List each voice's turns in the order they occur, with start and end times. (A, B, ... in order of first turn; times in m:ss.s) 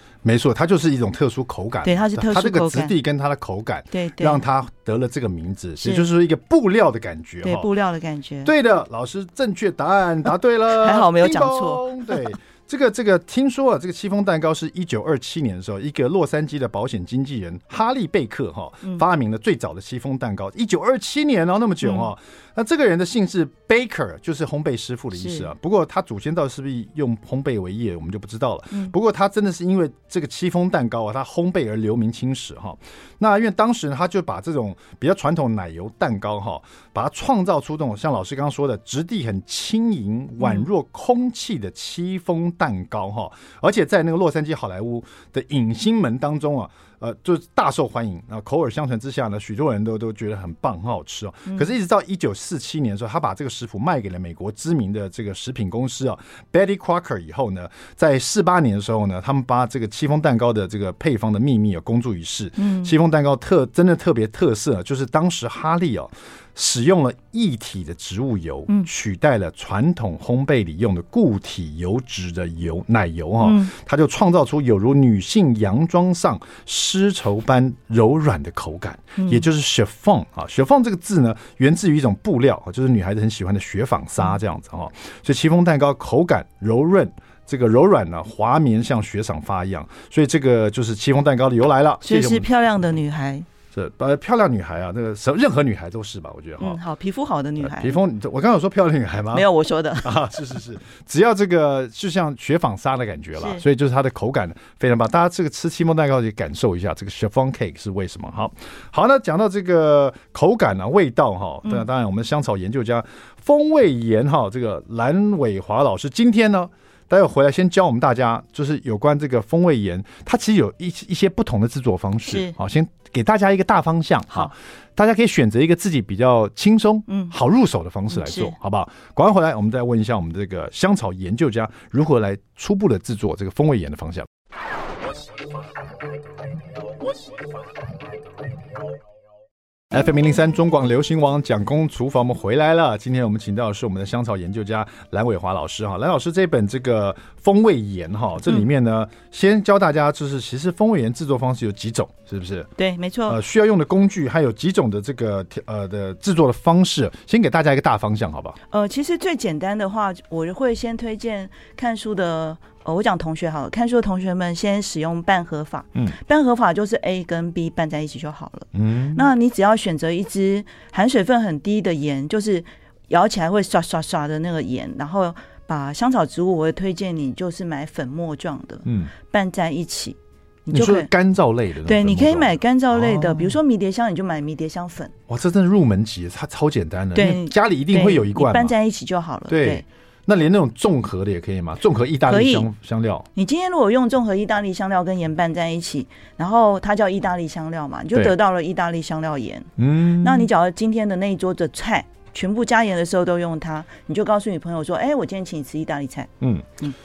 0:00.2-0:07.7 A
0:01.8-0:02.9 B
0:03.9-0:04.4 B
0:05.8-0:06.1 B
0:07.4-0:08.5 B
0:08.4-1:32.5 A
0:10.7-0:12.3 B
0:21.8-0:22.1 B
0:25.1-0:25.5 B
0:40.4-0:40.7 B
1:02.6-1:02.9 B
1:13.4-1:13.7 B
1:19.2-1:19.5 B
1:32.0-1:33.5 B
1:33.7-1:36.8 A
1:36.6-1:38.0 B
1:37.6-1:39.5 A
1:39.3-1:40.3 B
1:40.0-2:14.3 A
1:43.4-1:43.6 B
2:02.3-2:02.6 B
2:07.1-2:07.3 B
2:08.1-2:08.6 B
2:19.9-2:32.7 A
2:32.8-2:33.4 B
2:33.3-2:38.6 A
2:38.7-3:01.1 B
2:48.7-2:49.3 A
2:58.8-2:59.1 A
3:00.7-3:03.6 A
3:01.8-3:05.1 B
3:05.3-3:08.7 A
3:07.2-3:09.8 B
3:09.5-3:13.3 A
3:12.3-3:12.7 B
3:13.4-3:26.9 B
3:19.8-3:20.5 A
3:26.4-3:26.7 A